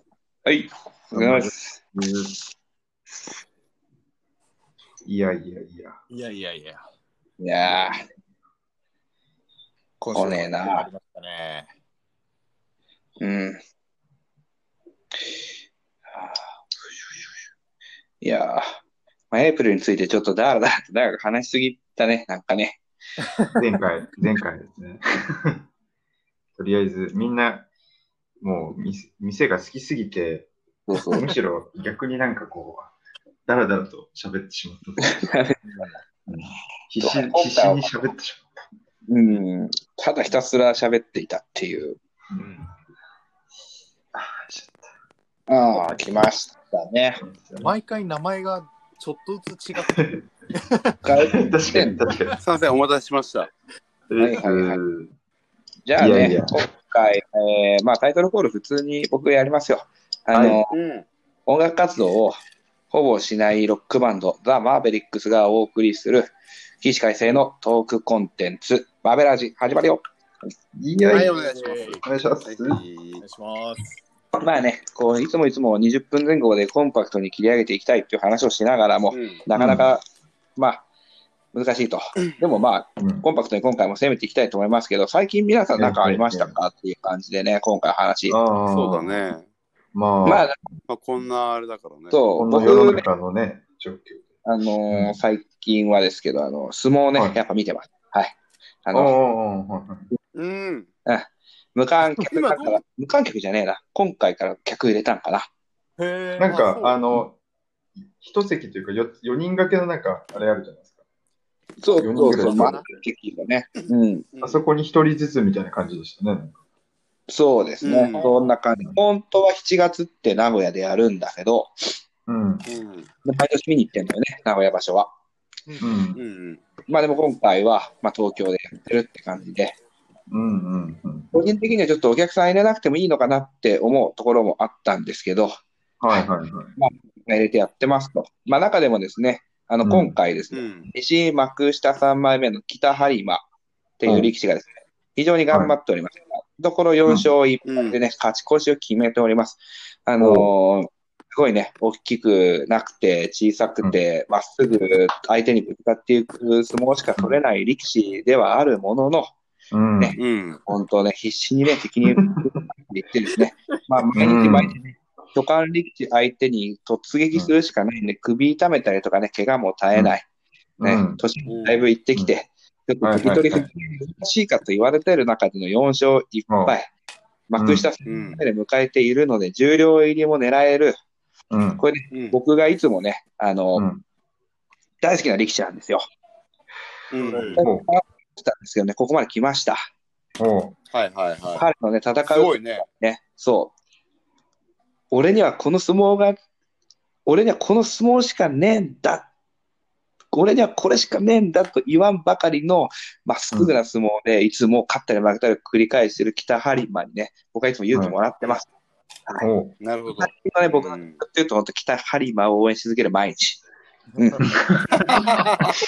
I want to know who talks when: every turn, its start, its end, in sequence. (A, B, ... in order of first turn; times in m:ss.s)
0:00.4-0:01.8 A
0:01.1-0:02.4 B
0:05.0-0:06.0 B
0:06.1-0:06.8 C
0:07.4-0:08.0 A
0:07.6-0:08.0 B
0:10.0-0:10.9 A
0:10.1-0:11.7 C
0:13.2-0:13.6 A
0:16.1-0:17.2 A
0:18.2-0:18.8 A
0:19.3-0:22.8 A
0:23.2-0:23.6 C
0:23.6-0:25.6 B
0:26.6-0:27.7 B
0:28.4-0:32.9 B
0:30.9-0:31.3 A
0:33.5-0:35.2 B
0:35.0-0:35.5 A
0:35.6-0:36.0 C
0:36.3-0:38.4 B
0:37.0-0:38.0 A
0:39.1-0:42.0 A
0:42.4-0:42.7 C
0:44.1-0:44.9 B
0:45.5-0:47.2 A
0:47.2-0:47.7 B
0:47.6-0:51.0 C
0:49.9-0:50.2 B
0:51.0-0:52.0 A
0:51.0-0:52.4 B
0:52.4-0:53.5 D
0:54.1-0:55.1 B
0:54.2-0:54.8 A
0:55.8-1:00.7 A
0:56.0-0:56.6 B
1:00.4-1:01.0 D
1:01.4-1:02.4 A
1:02.9-1:10.0 A
1:10.7-1:11.3 B
1:11.0-1:13.2 D
1:11.1-1:12.0 C
1:12.0-1:12.8 B
1:13.2-1:14.0 C
1:14.3-1:20.0 A
1:19.1-1:19.4 D
1:19.5-1:19.9 B
1:20.6-1:20.8 A
1:21.5-1:28.4 A
1:23.0-1:23.2 B
1:25.7-1:26.5 B
1:28.3-1:29.2 B
1:28.7-1:29.4 D
1:29.9-1:30.6 B
1:30.2-1:30.5 A
1:30.9-1:32.2 D
1:32.1-1:33.0 A
1:32.4-1:34.3 B
1:34.4-1:39.1 A
1:34.9-1:35.2 B
1:38.9-1:40.1 B
1:40.3-1:40.9 D
1:41.0-1:45.5 A
1:42.2-1:42.8 D
1:46.0-1:47.2 C
1:46.4-1:47.4 B
1:46.5-1:46.8 D
1:48.1-1:50.9 B
1:51.8-1:54.2 A
1:52.0-1:53.0 B
1:52.2-1:52.8 D
1:53.8-1:54.6 D
1:54.4-1:56.5 B
1:57.3-2:01.9 A
1:57.8-1:58.3 D
2:02.3-2:02.6 B
2:02.6-2:03.1 D
2:03.2-2:05.1 A
2:05.6-2:06.0 C
2:05.8-2:06.2 B
2:06.1-2:06.6 D
2:06.9-2:09.7 A
2:10.3-2:11.3 B
2:11.3-2:15.6 A
2:16.0-2:16.8 B
2:16.8-2:23.4 A
2:19.8-2:20.2 B
2:20.5-2:20.9 D
2:24.0-2:39.3 A
2:24.0-2:24.3 B
2:27.6-2:28.0 D
2:30.2-2:30.5 B
2:39.7-2:40.2 B
2:40.0-2:50.2 A
2:40.2-2:40.6 D
2:42.1-2:42.6 B
2:44.0-2:44.8 B
2:50.8-2:51.2 B
2:50.8-2:56.9 A
2:51.4-2:51.8 D
2:53.0-2:53.7 B
2:56.5-2:56.8 B
2:57.5-3:01.0 A
2:57.6-2:57.9 B
2:58.0-2:58.4 D
3:01.5-3:01.8 B
3:01.8-3:03.8 A
3:02.1-3:02.4 D
3:03.7-3:04.0 B
3:05.0-3:06.0 A
3:07.1-3:07.6 D
3:07.2-3:07.6 C
3:07.6-3:07.9 B
3:07.6-3:09.8 A
3:10.4-3:10.7 B
3:10.9-3:11.7 D
3:11.5-3:13.7 A
3:12.2-3:12.8 D
3:15.1-3:16.4 A
3:17.2-3:19.3 A
3:20.3-3:28.7 A
3:27.9-3:28.2 B
3:29.4-3:29.8 B
3:29.8-3:31.2 D
3:30.2-3:33.6 A
3:34.1-3:34.4 C
3:34.2-3:34.5 A
3:34.4-3:35.3 B
3:35.2-3:35.7 A